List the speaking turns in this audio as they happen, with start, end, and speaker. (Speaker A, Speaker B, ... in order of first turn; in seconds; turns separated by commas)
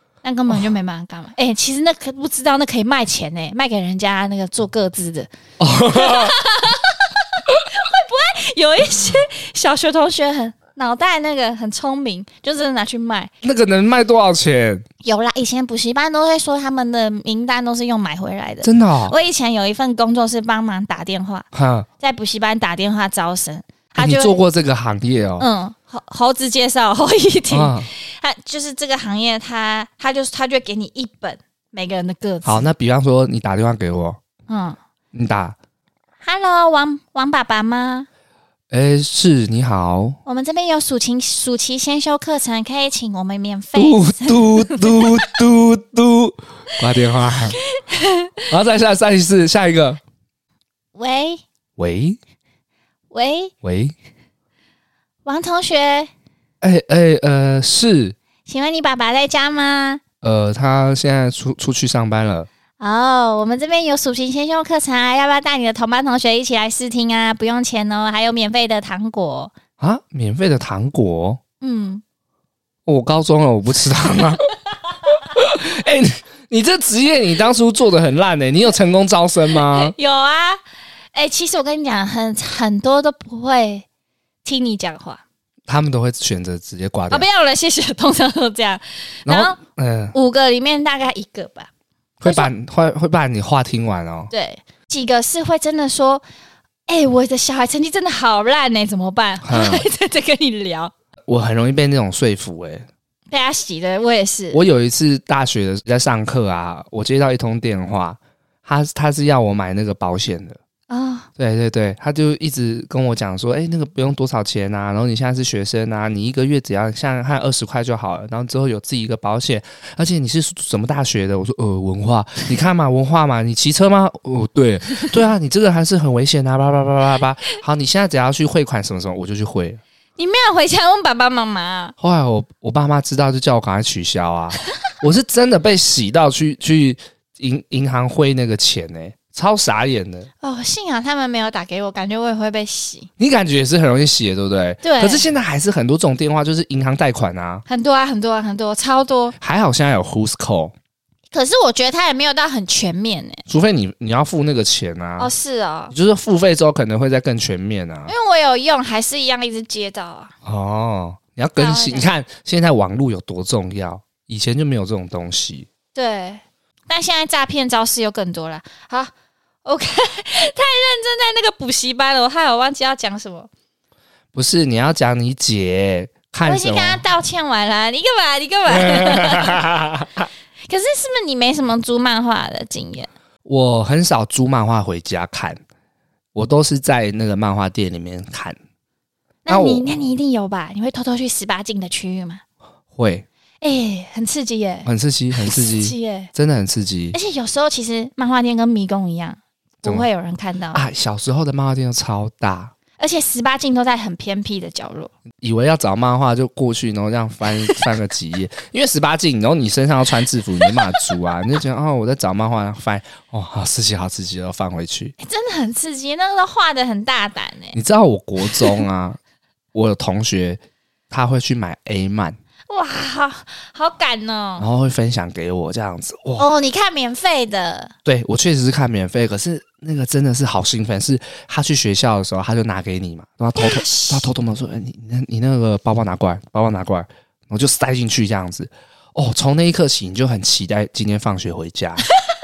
Speaker A: 0.2-5.3, Speaker B: 5.6-6.4, Speaker A: 5.9-13.3, Speaker B: 13.4-14.8, Speaker A: 15.0-21.5, Speaker B: 18.6-19.1, Speaker B: 21.5-21.9, Speaker A: 22.0-24.4, Speaker B: 24.0-25.5, Speaker A: 25.4-32.6, Speaker B: 27.5-27.9, Speaker B: 32.4-34.2, Speaker A: 34.5-34.8, Speaker B: 35.1-35.6, Speaker A: 36.2-38.1, Speaker B: 38.7-40.2, Speaker A: 40.3-45.3, Speaker B: 43.8-47.6, Speaker A: 47.7-48.5, Speaker B: 48.5-50.0, Speaker A: 51.0-51.4, Speaker B: 51.8-52.2, Speaker A: 53.1-53.5, Speaker B: 53.6-53.9, Speaker A: 55.2-56.1, Speaker B: 56.6-58.2, Speaker A: 58.5-60.0, Speaker B: 60.2-62.5, Speaker A: 62.8-69.5, Speaker B: 69.8-71.4, Speaker A: 71.6-72.0, Speaker B: 72.9-74.5, Speaker B: 75.1-79.9, Speaker A: 79.5-80.6, Speaker A: 81.1-83.9, Speaker A: 84.4-85.2, Speaker B: 85.7-87.3, Speaker A: 87.1-89.6, Speaker B: 89.3-90.2, Speaker A: 90.1-91.7, Speaker B: 92.2-94.3, Speaker A: 92.2-92.5, Speaker A: 94.3-96.2, Speaker A: 96.9-100.9, Speaker B: 99.5-99.9, Speaker B: 101.3-102.9, Speaker A: 103.3-104.6, Speaker B: 104.5-110.6, Speaker A: 110.9-111.3, Speaker B: 111.4-129.8, Speaker A: 130.2-131.9, Speaker B: 132.0-140.3, Speaker A: 140.4-143.1, Speaker B: 143.2-147.7, Speaker A: 144.8-145.2, Speaker A: 147.7-149.3, Speaker B: 149.4-150.7, Speaker A: 151.3-153.4, Speaker B: 153.5-155.3, Speaker A: 155.2-155.9, Speaker B: 155.9-158.1, Speaker A: 158.1-160.3, Speaker B: 160.4-165.7, Speaker A: 161.6-162.1, Speaker A: 165.9-169.1, Speaker A: 169.7-173.5, Speaker B: 174.3-177.0, Speaker A: 176.4-179.6, Speaker B: 178.7-180.3, Speaker A: 180.7-183.1, Speaker B: 183.4-185.6, Speaker B: 186.3-188.6, Speaker A: 189.5-192.4, Speaker B: 189.5-189.9, Speaker B: 192.9-193.3, Speaker A: 193.6-196.3, Speaker B: 194.8-197.2, Speaker A: 197.1-200.8, Speaker B: 200.7-202.7, Speaker A: 203.0-205.1, Speaker B: 205.4-215.2, Speaker A: 210.6-211.1, Speaker A: 215.2-217.8, Speaker B: 217.7-219.2, Speaker A: 218.4-218.8, Speaker B: 219.7-222.4, Speaker A: 222.7-224.7, Speaker B: 224.6-226.5, Speaker A: 226.4-227.9, Speaker B: 228.1-242.1, Speaker A: 233.6-234.3